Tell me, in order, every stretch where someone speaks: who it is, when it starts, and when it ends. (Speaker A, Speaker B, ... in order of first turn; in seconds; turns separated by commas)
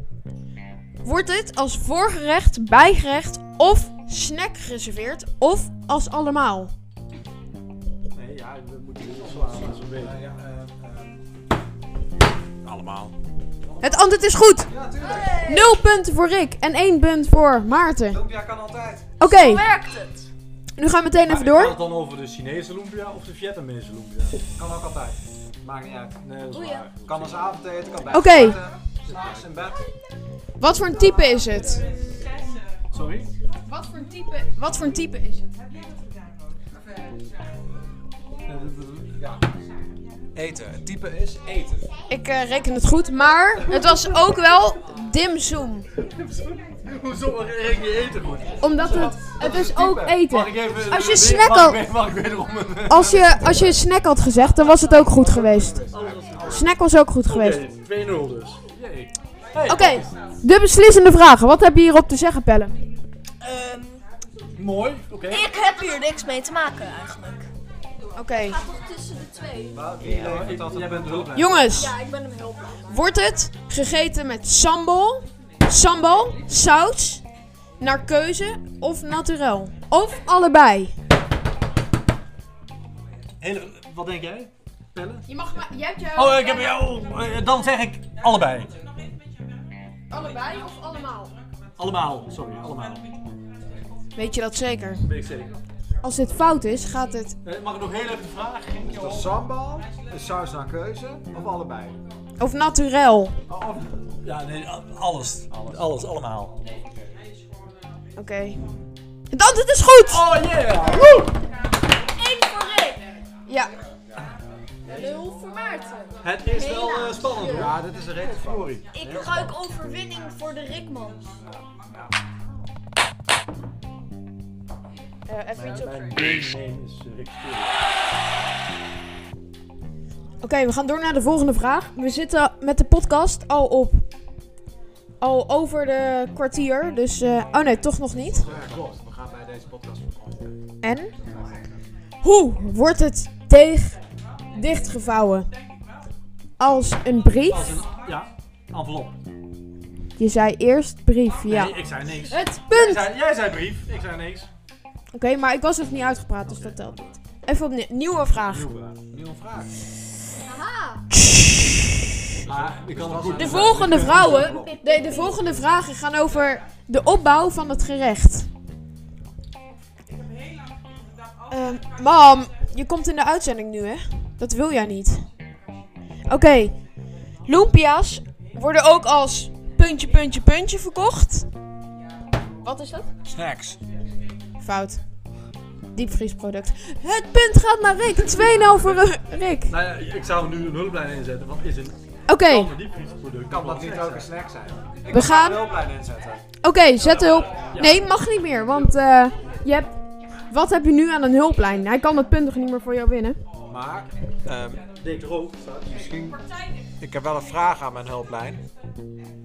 Speaker A: 1.0-6.7, Speaker B: 8.1-10.1, Speaker C: 9.4-11.2, Speaker C: 12.6-13.1, Speaker A: 13.8-14.7, Speaker C: 14.7-15.4, Speaker D: 15.0-15.8, Speaker A: 15.4-18.2, Speaker C: 18.1-19.1, Speaker A: 19.2-19.6, Speaker D: 19.3-20.3, Speaker A: 20.8-21.8, Speaker B: 21.2-24.4, Speaker C: 24.6-26.2, Speaker B: 26.2-27.4, Speaker D: 26.5-26.8, Speaker C: 27.0-29.9, Speaker A: 28.1-28.6, Speaker B: 29.1-29.5, Speaker A: 30.6-31.9, Speaker B: 32.9-33.3, Speaker A: 33.7-35.5, Speaker B: 38.5-39.2, Speaker C: 40.4-41.9, Speaker A: 42.1-45.9, Speaker B: 46.0-53.5, Speaker A: 48.6-51.8, Speaker A: 52.9-55.8, Speaker C: 54.6-56.6, Speaker B: 55.9-56.7, Speaker A: 56.4-57.6, Speaker B: 57.2-60.1, Speaker A: 59.7-62.7, Speaker D: 63.4-64.0, Speaker B: 64.6-65.5, Speaker D: 65.3-67.5, Speaker A: 68.2-68.6, Speaker D: 68.4-69.8, Speaker B: 69.7-71.8, Speaker C: 69.9-71.4, Speaker A: 71.3-72.0, Speaker D: 71.7-72.7, Speaker A: 72.9-77.2, Speaker A: 77.8-80.9, Speaker B: 83.4-85.2, Speaker A: 85.3-86.8, Speaker B: 86.2-88.8, Speaker A: 90.1-91.3, Speaker B: 91.8-93.1, Speaker A: 94.2-95.1, Speaker B: 95.0-95.5, Speaker A: 96.0-97.4, Speaker B: 97.4-99.3, Speaker C: 98.8-102.0, Speaker A: 102.4-103.4, Speaker C: 103.5-103.8, Speaker B: 103.6-106.5, Speaker A: 108.2-110.2, Speaker B: 110.1-111.3, Speaker D: 112.1-113.0, Speaker A: 113.5-113.7, Speaker D: 114.9-117.7, Speaker B: 116.2-118.8, Speaker C: 117.4-119.5, Speaker D: 118.9-121.3, Speaker A: 125.3-126.0, Speaker B: 125.5-127.8, Speaker A: 130.4-134.1, Speaker A: 135.2-138.5, Speaker C: 138.4-140.6, Speaker B: 138.5-138.9, Speaker A: 140.8-141.1, Speaker A: 142.2-144.0, Speaker A: 144.5-145.5, Speaker A: 146.6-147.8, Speaker B: 147.3-149.2, Speaker A: 150.2-153.1, Speaker B: 151.4-154.5, Speaker A: 155.1-158.7, Speaker B: 156.5-157.1, Speaker B: 158.5-159.0, Speaker C: 159.1-159.7, Speaker D: 160.4-161.1, Speaker A: 161.2-161.7, Speaker B: 162.4-164.5, Speaker C: 162.5-164.7, Speaker A: 163.3-168.5, Speaker D: 164.1-165.4, Speaker A: 171.5-175.3, Speaker A: 176.3-181.5, Speaker A: 182.6-183.1, Speaker C: 183.2-183.8, Speaker A: 184.6-185.1, Speaker A: 185.9-189.7, Speaker B: 189.7-194.3, Speaker A: 192.3-192.7, Speaker C: 193.5-196.4, Speaker A: 195.1-195.7, Speaker A: 196.6-203.4, Speaker B: 197.0-198.0, Speaker C: 203.7-204.8, Speaker B: 205.0-206.1, Speaker C: 205.9-206.4, Speaker C: 207.0-208.6